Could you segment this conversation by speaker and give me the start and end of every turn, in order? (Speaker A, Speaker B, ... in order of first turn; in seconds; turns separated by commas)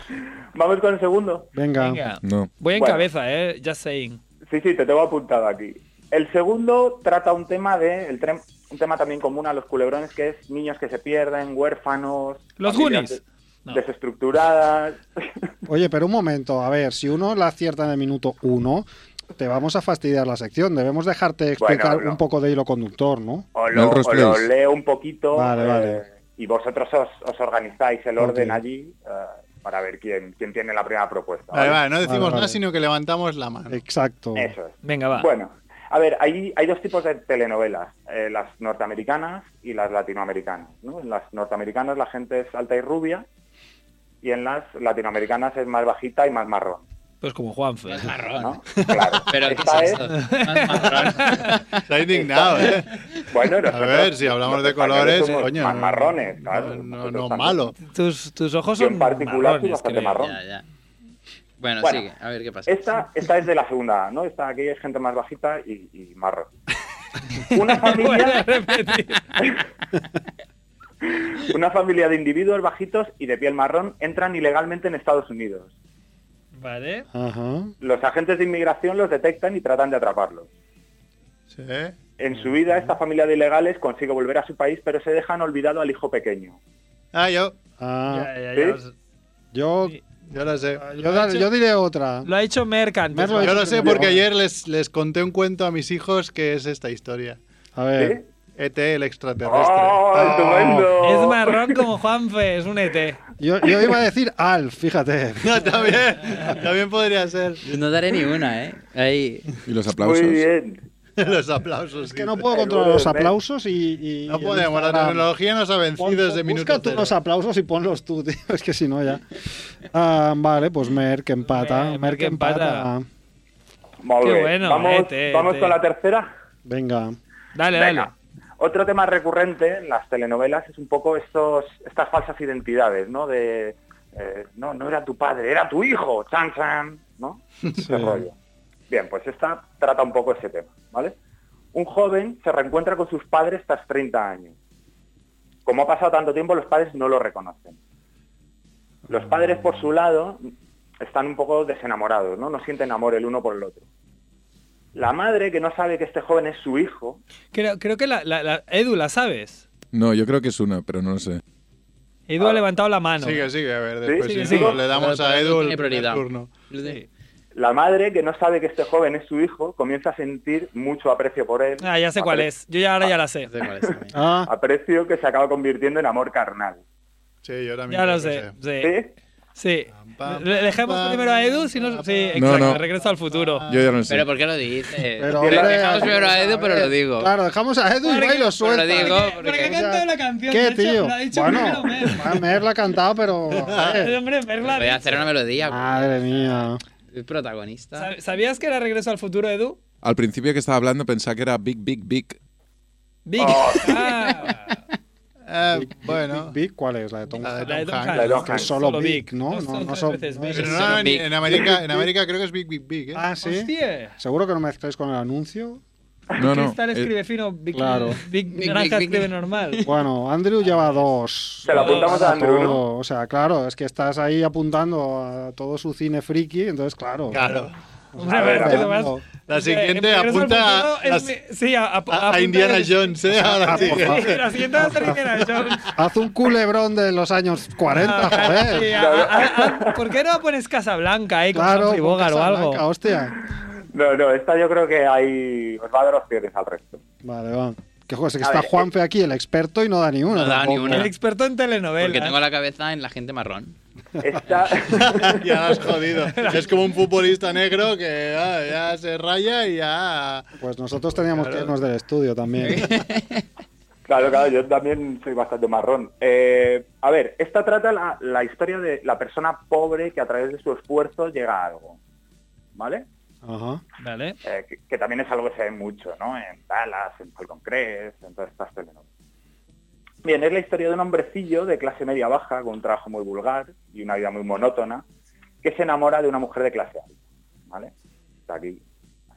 Speaker A: 0.6-1.5, Speaker B: 1.6-2.1, Speaker C: 1.8-4.2, Speaker D: 2.2-2.6, Speaker A: 2.7-3.1, Speaker A: 4.5-15.5, Speaker C: 12.6-13.8, Speaker B: 15.7-23.5, Speaker A: 21.6-22.2, Speaker A: 23.5-31.8, Speaker D: 23.7-24.5, Speaker B: 25.3-26.0, Speaker B: 28.2-28.6, Speaker E: 31.5-33.8, Speaker B: 32.0-32.6, Speaker B: 33.7-34.5, Speaker A: 34.4-43.2, Speaker C: 34.8-35.3, Speaker A: 44.2-46.9, Speaker C: 47.2-48.1, Speaker F: 47.9-52.9, Speaker A: 48.4-50.0, Speaker E: 48.8-49.2, Speaker C: 50.1-51.6, Speaker E: 50.8-51.2, Speaker E: 51.9-52.9, Speaker A: 53.3-57.7, Speaker E: 53.6-57.8, Speaker C: 57.8-59.8, Speaker A: 58.8-60.4, Speaker F: 59.5-60.6, Speaker F: 61.6-63.3, Speaker A: 62.7-66.5, Speaker C: 67.3-69.3, Speaker A: 67.5-68.5, Speaker A: 71.1-75.7, Speaker C: 76.6-77.1, Speaker B: 77.1-77.7, Speaker A: 77.8-80.5, Speaker E: 81.5-82.0, Speaker A: 82.2-86.6, Speaker B: 82.5-82.9, Speaker E: 87.1-87.5, Speaker B: 87.8-88.3, Speaker C: 88.1-88.9, Speaker B: 89.5-90.0, Speaker E: 90.3-90.8, Speaker B: 90.8-92.3, Speaker C: 90.9-91.5, Speaker C: 92.2-94.0, Speaker B: 93.1-94.2, Speaker E: 93.4-97.4, Speaker B: 97.8-98.2, Speaker A: 98.0-98.2, Speaker E: 98.6-100.9, Speaker A: 99.5-101.5, Speaker B: 100.4-100.9, Speaker C: 101.0-103.2, Speaker B: 103.4-105.9, Speaker E: 105.4-107.6, Speaker F: 107.6-109.5, Speaker D: 109.7-110.5, Speaker A: 110.0-110.8, Speaker E: 111.2-112.4, Speaker B: 112.0-115.3, Speaker A: 112.5-113.3, Speaker E: 114.3-117.1, Speaker B: 116.0-119.3, Speaker B: 119.8-123.1, Speaker C: 121.5-122.9, Speaker A: 124.0-126.3, Speaker C: 124.2-125.8, Speaker B: 126.7-127.2, Speaker C: 127.5-128.1, Speaker A: 127.7-138.3, Speaker E: 137.7-138.1, Speaker B: 137.8-138.2, Speaker A: 138.9-141.2, Speaker A: 141.7-144.6, Speaker A: 145.7-147.8, Speaker A: 149.1-150.5, Speaker E: 149.1-149.5, Speaker A: 151.0-153.8, Speaker A: 154.9-157.2, Speaker C: 157.5-159.7, Speaker D: 159.9-161.4, Speaker C: 162.3-163.5, Speaker E: 163.2-166.5, Speaker A: 164.1-164.8, Speaker C: 164.2-164.8, Speaker F: 164.8-167.0, Speaker A: 167.5-172.5, Speaker C: 171.8-173.5, Speaker F: 173.5-174.1, Speaker A: 173.7-173.9, Speaker B: 174.1-174.5, Speaker A: 174.5-176.8, Speaker E: 177.4-178.5, Speaker C: 177.9-178.9, Speaker A: 178.8-179.1, Speaker C: 179.6-183.7, Speaker E: 180.0-184.2, Speaker D: 182.4-182.8, Speaker D: 183.7-184.2, Speaker F: 184.1-187.3, Speaker B: 185.2-194.1, Speaker A: 185.4-186.1, Speaker C: 188.0-192.3, Speaker F: 188.6-189.8, Speaker E: 193.5-194.0, Speaker C: 193.8-195.2, Speaker F: 194.6-196.1, Speaker B: 195.6-196.8, Speaker F: 197.1-198.1, Speaker C: 198.0-199.8, Speaker D: 200.0-202.4, Speaker C: 203.3-204.8, Speaker A: 203.4-203.9, Speaker E: 205.5-206.5, Speaker B: 205.7-207.8, Speaker E: 207.4-208.7, Speaker C: 207.6-211.0, Speaker A: 208.1-208.7, Speaker B: 208.4-212.1, Speaker E: 210.5-213.2, Speaker F: 211.0-211.6, Speaker B: 213.2-215.8, Speaker C: 213.4-214.2, Speaker D: 216.4-217.1, Speaker C: 216.4-219.8, Speaker B: 217.7-218.2, Speaker F: 218.5-219.9, Speaker B: 219.8-227.5, Speaker C: 220.7-221.1, Speaker A: 221.7-222.8, Speaker C: 221.7-222.3, Speaker E: 227.3-227.8, Speaker B: 228.1-229.2, Speaker C: 228.2-235.8, Speaker A: 228.4-228.8, Speaker E: 229.5-231.3, Speaker E: 232.1-235.2, Speaker B: 233.3-239.0, Speaker C: 237.9-242.8, Speaker A: 238.9-240.1, Speaker B: 241.5-243.4, Speaker A: 243.4-247.0, Speaker B: 247.2-251.1, Speaker A: 248.4-248.9, Speaker F: 250.3-251.1, Speaker C: 250.8-252.4, Speaker F: 252.0-253.8, Speaker A: 254.2-255.8, Speaker E: 255.0-260.5, Speaker C: 256.3-256.7, Speaker B: 260.6-262.9, Speaker E: 261.1-261.7, Speaker F: 262.6-263.4, Speaker A: 264.1-272.0, Speaker A: 272.8-273.1, Speaker B: 273.4-273.8, Speaker C: 274.0-274.4, Speaker A: 274.4-279.0, Speaker A: 280.2-285.0, Speaker A: 285.6-287.2, Speaker A: 288.5-288.8